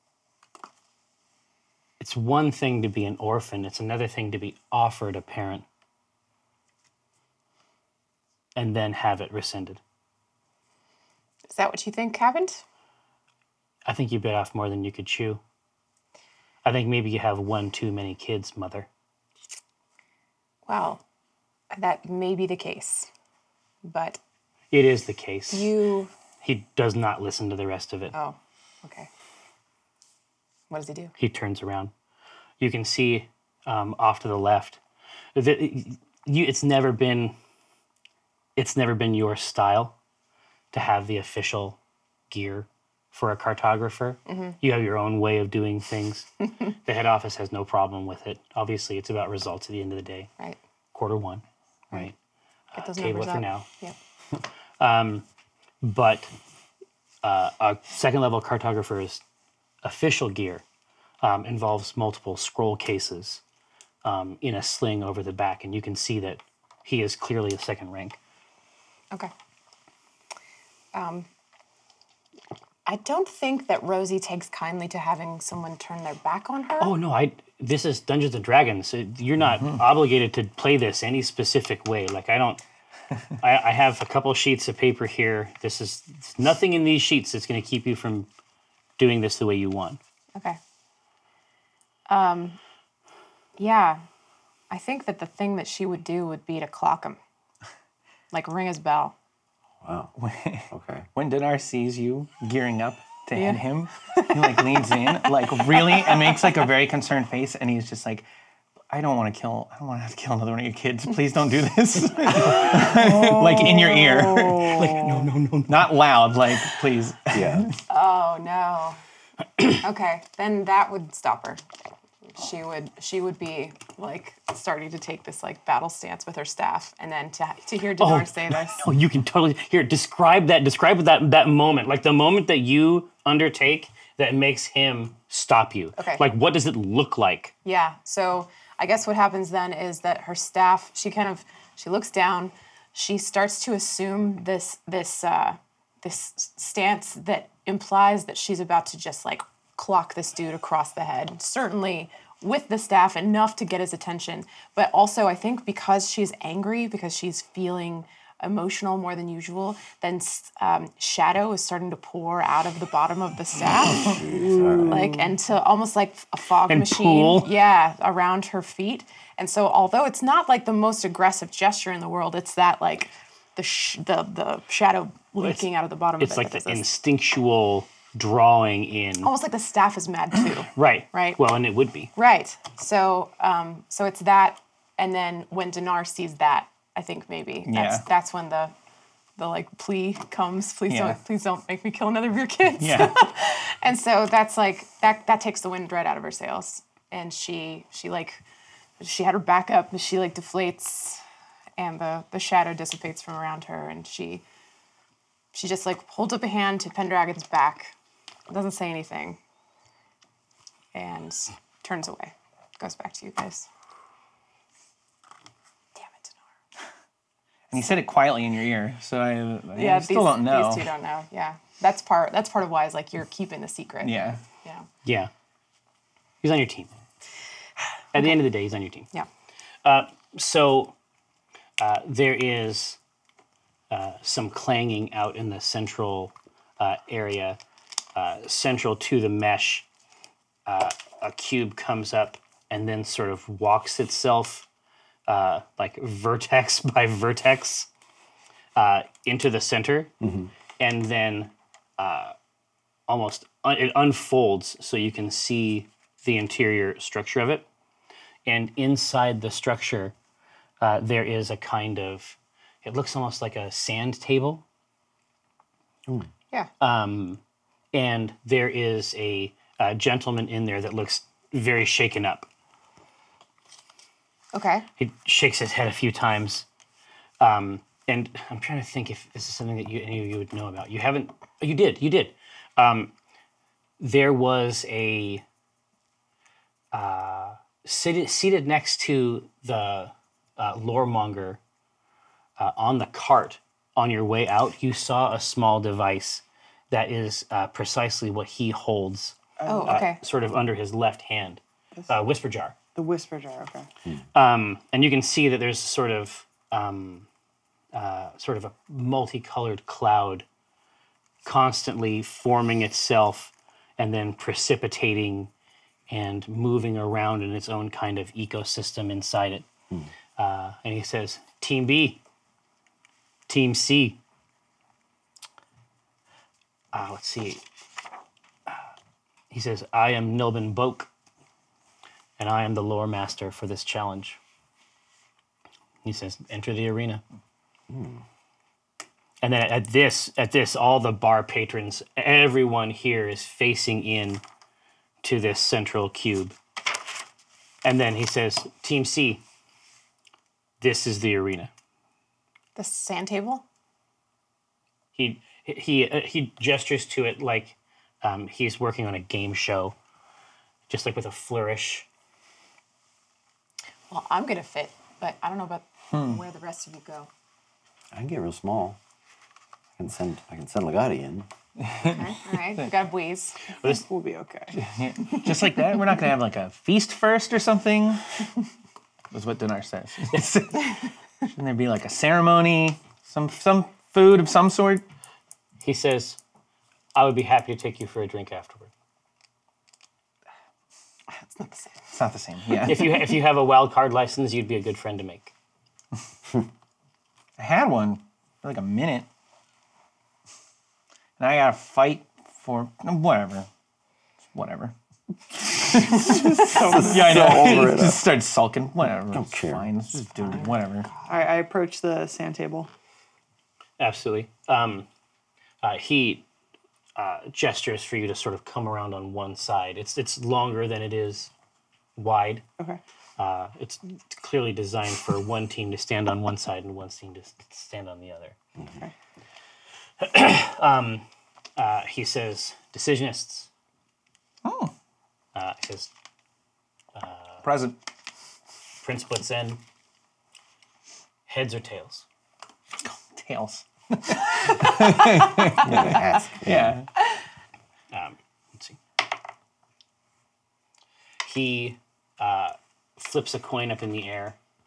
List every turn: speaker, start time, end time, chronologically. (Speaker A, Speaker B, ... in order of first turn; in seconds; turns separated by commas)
Speaker A: 2.0-5.7, Speaker A: 8.6-9.8, Speaker B: 11.5-12.6, Speaker A: 13.9-15.4, Speaker A: 16.6-18.9, Speaker B: 20.7-21.0, Speaker B: 21.7-23.1, Speaker B: 23.8-24.2, Speaker A: 24.7-25.7, Speaker B: 25.5-26.1, Speaker A: 26.4-28.1, Speaker B: 28.1-29.1, Speaker B: 30.7-31.1, Speaker A: 31.2-31.9, Speaker A: 32.6-34.8, Speaker A: 35.4-37.4, Speaker A: 38.6-39.9, Speaker A: 40.7-41.8, Speaker A: 42.3-50.3, Speaker B: 44.3-44.6, Speaker A: 50.9-52.1, Speaker A: 52.7-53.7, Speaker B: 52.7-54.0, Speaker A: 54.8-55.2, Speaker A: 55.8-56.3, Speaker A: 57.2-59.2, Speaker A: 59.8-60.6, Speaker A: 61.2-63.4, Speaker A: 64.0-68.2, Speaker B: 70.9-71.3, Speaker B: 72.9-76.9, Speaker A: 76.8-82.6, Speaker A: 83.4-88.3, Speaker A: 89.0-90.0, Speaker B: 92.1-92.6, Speaker B: 93.6-94.0, Speaker B: 94.7-97.2, Speaker B: 98.3-99.2, Speaker C: 99.8-100.1, Speaker D: 100.2-108.2, Speaker C: 100.7-101.1, Speaker B: 103.3-104.8, Speaker D: 108.9-114.8, Speaker E: 112.7-115.3, Speaker A: 114.7-116.0, Speaker D: 115.7-117.7, Speaker C: 117.3-117.7, Speaker B: 117.9-119.0, Speaker B: 119.7-121.6, Speaker B: 122.3-128.8, Speaker A: 128.0-137.5, Speaker B: 136.0-136.3, Speaker B: 137.7-164.2, Speaker C: 163.9-165.1, Speaker E: 164.2-165.3, Speaker B: 164.9-176.9, Speaker A: 166.7-167.5, Speaker A: 175.4-175.7, Speaker A: 176.2-179.3, Speaker B: 179.2-181.4, Speaker A: 180.8-182.1, Speaker B: 182.2-188.7, Speaker D: 187.7-188.0, Speaker B: 189.4-198.4, Speaker D: 190.9-191.2, Speaker D: 192.8-193.2, Speaker B: 199.0-201.2, Speaker B: 201.8-204.4, Speaker B: 205.5-207.9, Speaker B: 208.5-209.4, Speaker B: 210.9-213.7, Speaker B: 216.0-216.4, Speaker D: 217.7-220.9, Speaker B: 219.8-224.9, Speaker D: 224.0-224.4, Speaker A: 225.1-225.3, Speaker A: 226.4-226.9, Speaker A: 228.1-229.1, Speaker A: 229.8-230.9, Speaker A: 231.8-233.0, Speaker A: 233.9-237.6, Speaker A: 238.2-239.9, Speaker A: 240.7-244.7, Speaker A: 245.3-247.9, Speaker A: 248.8-250.1, Speaker C: 250.2-250.5, Speaker A: 250.8-252.3, Speaker A: 253.1-257.7, Speaker A: 258.5-260.1, Speaker A: 260.8-264.6, Speaker A: 266.8-267.4, Speaker A: 267.9-272.5, Speaker B: 274.5-274.9, Speaker A: 275.0-276.7, Speaker A: 277.4-283.1, Speaker A: 284.0-285.4, Speaker A: 286.9-291.6, Speaker A: 292.6-302.8, Speaker E: 299.6-300.1, Speaker B: 299.7-300.2, Speaker E: 302.9-303.9, Speaker A: 304.3-307.3, Speaker A: 307.9-310.5, Speaker A: 311.4-315.5, Speaker A: 316.1-319.7, Speaker A: 320.4-322.2, Speaker A: 323.5-324.2, Speaker A: 326.9-327.6, Speaker A: 329.5-331.1, Speaker A: 332.4-334.4, Speaker A: 336.0-337.2, Speaker C: 337.9-338.2, Speaker A: 339.4-344.4, Speaker A: 345.2-346.6, Speaker A: 347.8-349.4, Speaker A: 350.8-351.7, Speaker B: 352.8-353.6, Speaker A: 355.2-359.9, Speaker A: 360.9-362.1, Speaker B: 364.1-367.3, Speaker D: 366.1-366.4, Speaker C: 368.1-369.0, Speaker C: 370.0-371.5, Speaker D: 371.8-372.2, Speaker B: 372.0-373.6, Speaker E: 373.8-374.8, Speaker D: 374.8-378.2, Speaker D: 379.3-385.0, Speaker A: 385.8-386.4, Speaker A: 387.1-388.9, Speaker B: 391.3-392.0, Speaker D: 392.1-393.2, Speaker A: 392.9-395.5, Speaker D: 397.6-399.3, Speaker D: 401.4-403.7, Speaker D: 404.5-404.9, Speaker D: 405.5-411.1, Speaker E: 406.3-407.8, Speaker C: 406.8-408.2, Speaker C: 409.3-409.9, Speaker E: 411.2-412.9, Speaker A: 414.0-415.1, Speaker A: 415.8-416.5, Speaker A: 417.2-421.5, Speaker A: 422.2-422.6, Speaker A: 423.4-428.6, Speaker A: 430.2-431.2, Speaker A: 431.8-433.7, Speaker D: 434.6-434.9, Speaker A: 435.6-436.1, Speaker A: 437.1-437.6, Speaker D: 437.6-438.0, Speaker A: 439.0-439.8, Speaker A: 441.5-442.2, Speaker D: 443.0-447.1, Speaker C: 445.8-446.9, Speaker A: 448.1-449.0, Speaker A: 451.4-454.6